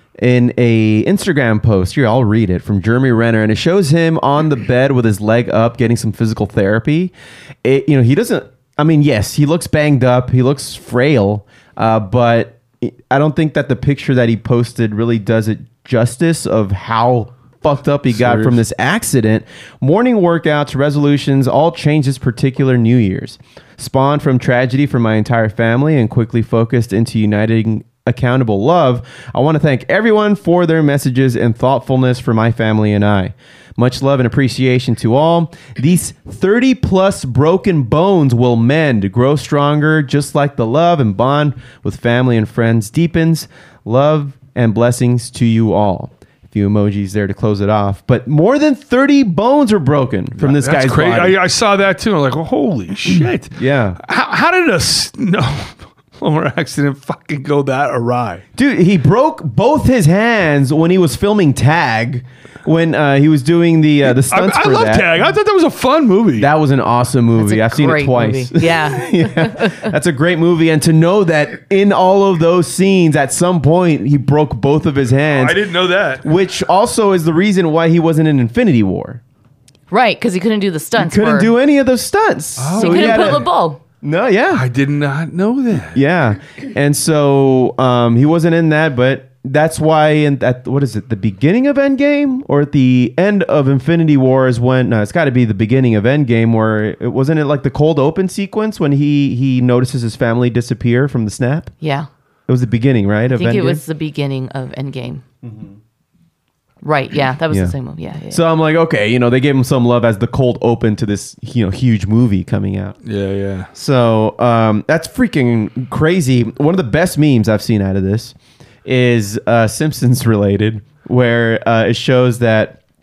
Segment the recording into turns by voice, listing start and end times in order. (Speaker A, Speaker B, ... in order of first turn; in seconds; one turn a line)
Speaker A: 0.2-7.1
Speaker A: 7.6-51.4
Speaker B: 18.1-18.6
Speaker B: 50.4-58.4
Speaker A: 53.1-54.0
Speaker A: 58.6-65.2
Speaker B: 64.1-66.5
Speaker A: 66.4-75.6
Speaker C: 67.4-69.9
Speaker B: 75.3-76.2
Speaker A: 76.2-79.2
Speaker C: 79.9-81.5
Speaker A: 81.0-83.5
Speaker B: 82.6-83.5
Speaker C: 82.8-83.8
Speaker A: 84.0-84.7
Speaker B: 84.5-86.0
Speaker A: 85.9-101.7
Speaker C: 101.8-102.1
Speaker A: 102.5-103.8
Speaker C: 103.3-105.2
Speaker A: 105.4-105.8
Speaker C: 106.8-108.4
Speaker A: 107.5-107.8
Speaker A: 108.3-113.0
Speaker B: 113.1-113.7
Speaker A: 113.7-122.8